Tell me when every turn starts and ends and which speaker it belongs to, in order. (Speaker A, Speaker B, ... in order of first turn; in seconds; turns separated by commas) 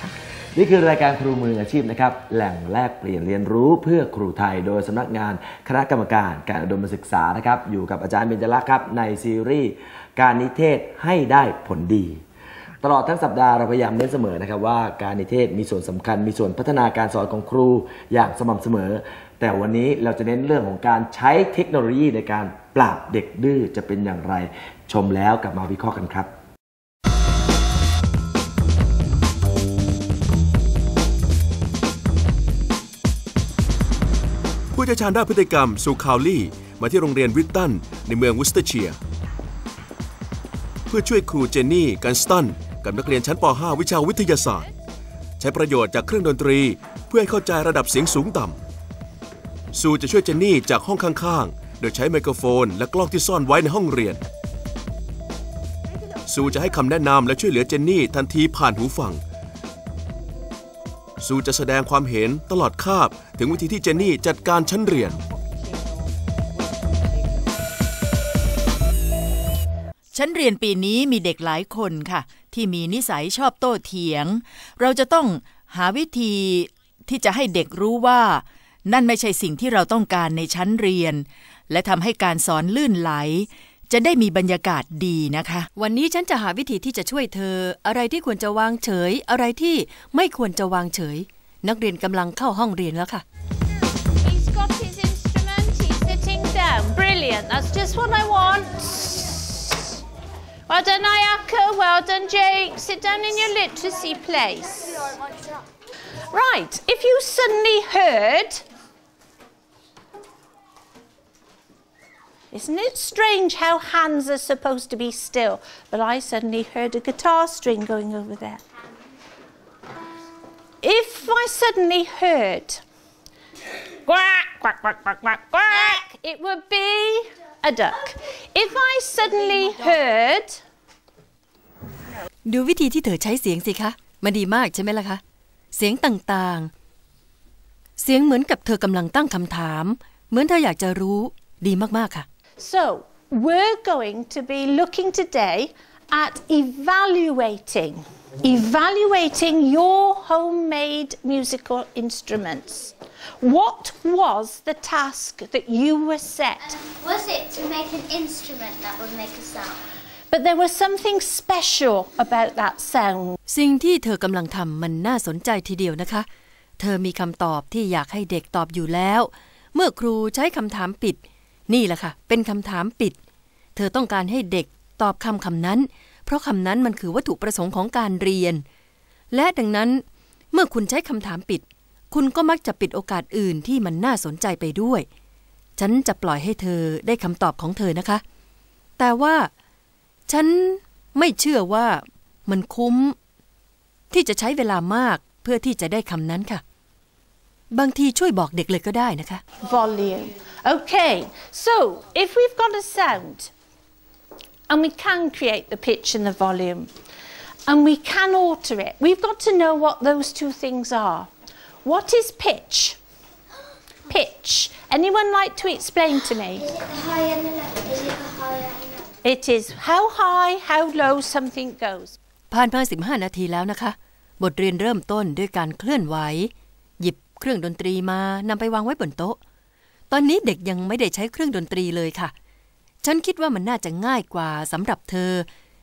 Speaker A: 0.5-12.2, Speaker A: 12.8-26.3, Speaker B: 34.7-39.0, Speaker B: 40.9-44.7, Speaker B: 45.4-48.6, Speaker B: 49.7-54.2, Speaker B: 56.3-59.2, Speaker B: 61.2-65.2, Speaker C: 70.1-85.7, Speaker D: 85.8-93.2, Speaker E: 94.2-99.9, Speaker E: 100.7-105.1, Speaker E: 106.3-108.6, Speaker E: 112.5-118.6, Speaker E: 120.8-122.8, Speaker E: 124.0-130.6, Speaker D: 132.4-135.2, Speaker D: 135.7-136.7, Speaker D: 138.0-142.2, Speaker E: 142.6-156.8, Speaker F: 156.9-159.8, Speaker E: 160.3-163.4, Speaker D: 163.5-166.3, Speaker D: 166.8-173.2, Speaker D: 173.8-178.6, Speaker D: 179.3-185.1, Speaker D: 185.8-188.2, Speaker D: 189.0-189.5, Speaker D: 190.3-193.1, Speaker D: 194.1-196.6, Speaker D: 197.7-199.4, Speaker E: 199.6-203.5, Speaker E: 204.7-206.9, Speaker E: 207.7-211.3, Speaker E: 211.8-213.0, Speaker E: 214.1-216.7, Speaker F: 216.6-219.0, Speaker E: 219.2-222.2, Speaker D: 222.5-229.4, Speaker D: 230.1-232.3, Speaker D: 233.0-235.5